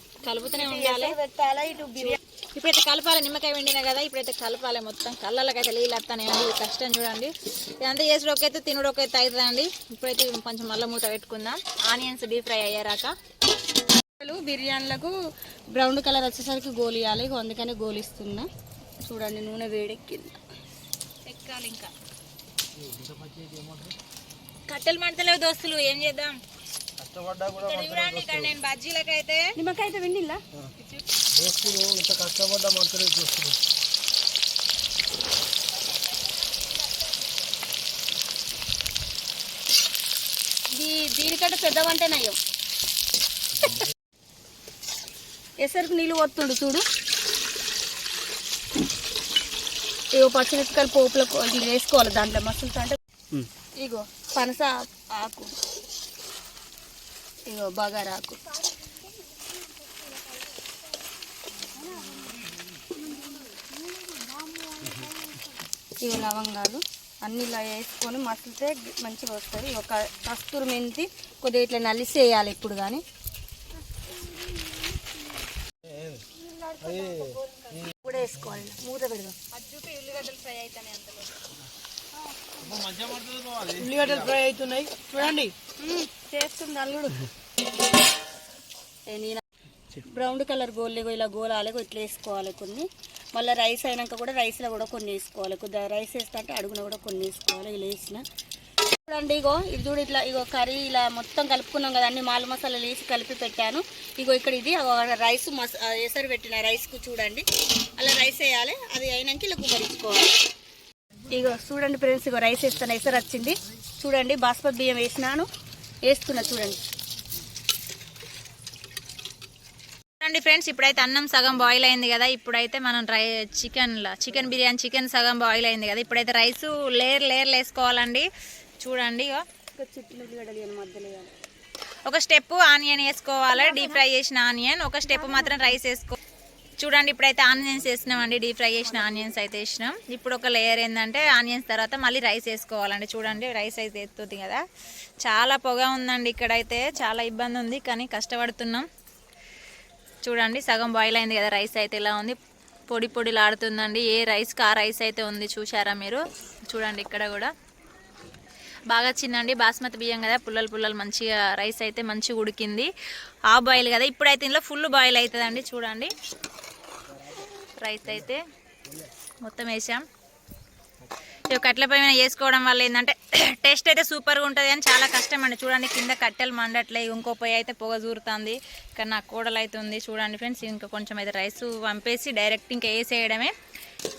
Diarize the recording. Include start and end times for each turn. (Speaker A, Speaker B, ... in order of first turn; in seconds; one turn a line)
Speaker A: 0.2-1.2
Speaker B: 0.5-2.2
Speaker A: 2.0-13.1
Speaker B: 14.2-15.1
Speaker B: 15.7-18.5
Speaker B: 19.0-20.4
Speaker A: 21.3-21.9
Speaker C: 22.8-23.9
Speaker A: 24.7-26.4
Speaker C: 27.0-28.5
Speaker A: 27.5-29.6
Speaker B: 29.6-30.4
Speaker A: 30.8-31.2
Speaker C: 31.3-33.6
Speaker A: 36.5-36.8
Speaker B: 40.7-42.4
Speaker B: 45.6-46.8
Speaker B: 50.1-55.5
Speaker B: 57.5-58.4
Speaker B: 61.8-62.4
Speaker B: 63.1-65.1
Speaker B: 66.0-73.0
Speaker C: 75.9-76.2
Speaker B: 76.5-79.4
Speaker C: 76.8-77.8
Speaker A: 79.5-81.4
Speaker B: 82.4-82.7
Speaker C: 82.6-84.4
Speaker B: 83.8-87.3
Speaker B: 89.1-89.4
Speaker B: 90.1-98.2
Speaker B: 99.1-107.5
Speaker B: 108.0-110.3
Speaker B: 111.3-115.5
Speaker B: 116.1-116.8
Speaker A: 120.2-128.3
Speaker A: 128.8-129.4
Speaker B: 129.8-131.3
Speaker A: 132.1-136.2
Speaker B: 133.5-134.1
Speaker B: 135.1-135.8
Speaker A: 136.8-144.6
Speaker B: 138.8-139.3
Speaker A: 145.2-148.9
Speaker A: 150.2-152.4
Speaker A: 152.9-157.5
Speaker A: 158.9-162.9
Speaker A: 163.5-166.1
Speaker A: 167.8-168.4
Speaker A: 169.4-170.1
Speaker A: 171.4-183.5